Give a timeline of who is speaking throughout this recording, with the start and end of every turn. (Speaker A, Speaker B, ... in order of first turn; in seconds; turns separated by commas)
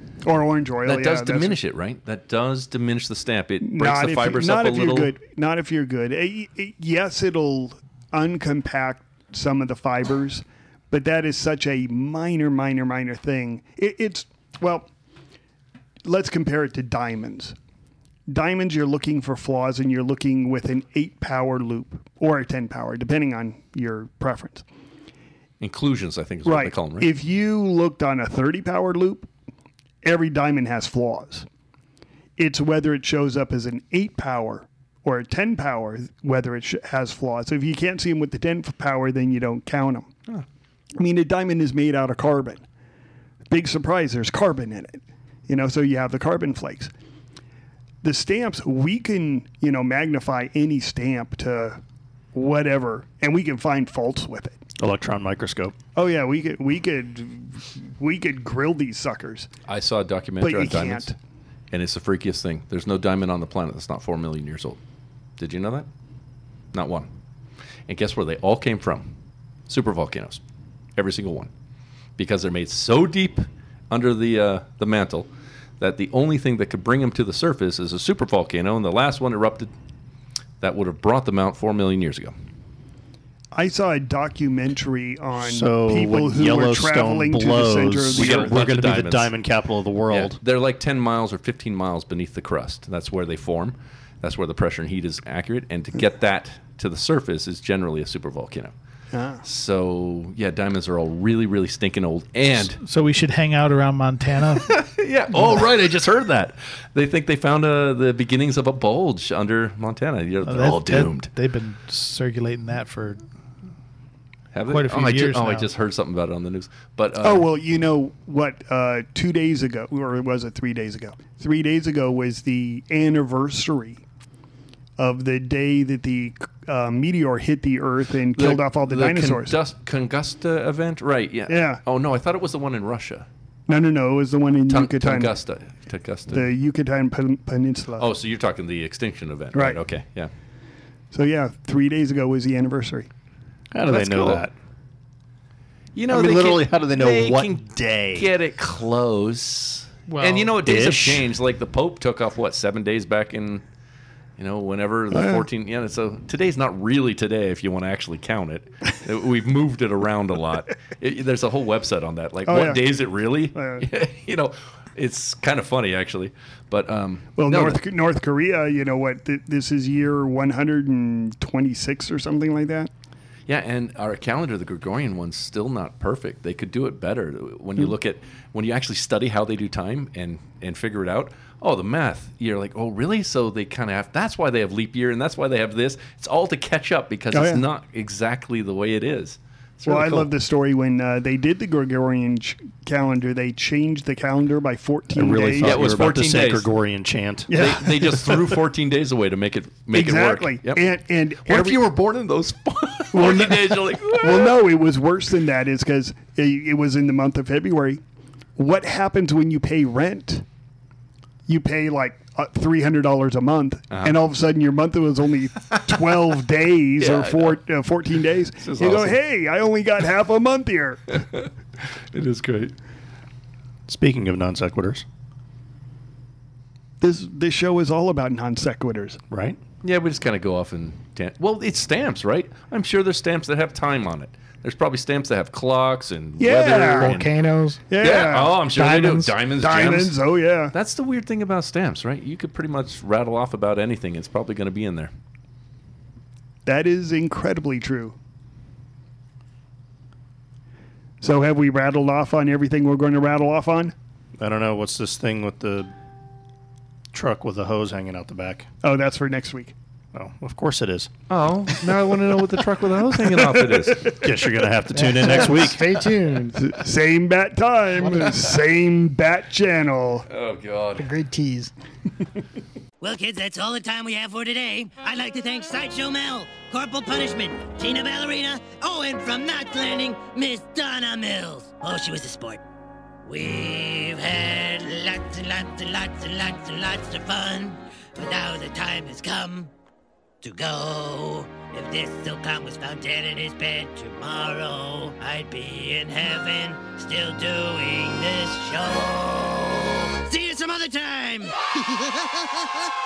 Speaker A: 0.2-1.6, Speaker B: 0.8-5.1, Speaker A: 3.6-14.9, Speaker A: 16.0-17.5, Speaker A: 18.3-24.6, Speaker B: 25.6-27.1, Speaker A: 26.4-29.3, Speaker A: 30.0-31.5, Speaker A: 32.4-40.1, Speaker A: 41.0-42.6, Speaker A: 43.5-46.9, Speaker A: 48.0-51.8, Speaker A: 52.3-54.6, Speaker C: 54.8-55.7, Speaker A: 55.9-59.5, Speaker B: 59.7-61.1, Speaker A: 60.4-61.1, Speaker B: 61.7-64.8, Speaker B: 65.4-65.9, Speaker B: 66.7-67.1, Speaker B: 67.9-69.1, Speaker B: 69.7-70.4, Speaker B: 71.0-71.5, Speaker B: 72.2-75.3, Speaker B: 75.8-79.7, Speaker B: 80.6-82.3, Speaker A: 83.5-88.5, Speaker C: 85.4-90.4, Speaker B: 88.1-89.3, Speaker B: 90.1-98.7, Speaker A: 99.1-99.4, Speaker B: 99.4-102.8, Speaker D: 102.7-104.7, Speaker B: 104.6-111.3, Speaker D: 110.4-113.2, Speaker B: 114.5-117.5, Speaker D: 114.7-115.7, Speaker A: 117.2-124.0, Speaker A: 125.0-129.5, Speaker B: 128.3-133.3, Speaker A: 131.5-131.8, Speaker A: 133.7-135.3, Speaker B: 134.7-136.4, Speaker A: 136.3-138.1, Speaker B: 138.0-140.3, Speaker A: 139.5-139.8, Speaker A: 141.1-143.1, Speaker C: 143.7-144.5, Speaker B: 143.9-144.5, Speaker B: 145.9-153.6, Speaker C: 146.1-148.3, Speaker D: 150.1-150.6, Speaker C: 150.6-151.3, Speaker B: 154.4-167.8, Speaker A: 155.1-155.4, Speaker A: 162.5-162.8, Speaker A: 163.5-163.8, Speaker A: 167.4-172.9, Speaker B: 173.5-190.3, Speaker A: 187.3-187.6, Speaker A: 189.8-196.2, Speaker C: 195.1-197.5, Speaker B: 195.6-196.7, Speaker A: 197.5-198.6, Speaker B: 197.5-200.9, Speaker A: 199.9-201.8, Speaker B: 201.4-204.6, Speaker A: 203.1-208.0, Speaker A: 208.6-210.4, Speaker A: 211.5-221.2, Speaker B: 213.9-214.2, Speaker B: 217.0-217.6, Speaker B: 218.6-219.2, Speaker B: 221.3-222.7, Speaker C: 223.9-225.0, Speaker A: 227.0-229.2, Speaker C: 229.3-229.6, Speaker B: 229.8-237.3, Speaker A: 236.4-237.1, Speaker E: 236.7-237.8, Speaker A: 237.9-238.6, Speaker B: 238.0-240.2, Speaker E: 238.7-239.4, Speaker A: 239.5-240.7, Speaker B: 240.7-245.1, Speaker A: 246.7-248.2, Speaker A: 251.2-253.9, Speaker C: 254.4-255.9, Speaker C: 257.1-258.7, Speaker A: 258.8-259.7, Speaker C: 260.1-261.1, Speaker B: 261.3-264.1, Speaker A: 263.4-264.2, Speaker C: 264.2-265.8, Speaker E: 264.9-266.7, Speaker A: 266.6-270.2, Speaker B: 270.3-271.1, Speaker E: 271.0-271.7, Speaker F: 273.0-282.6, Speaker F: 283.2-289.7, Speaker F: 290.4-301.5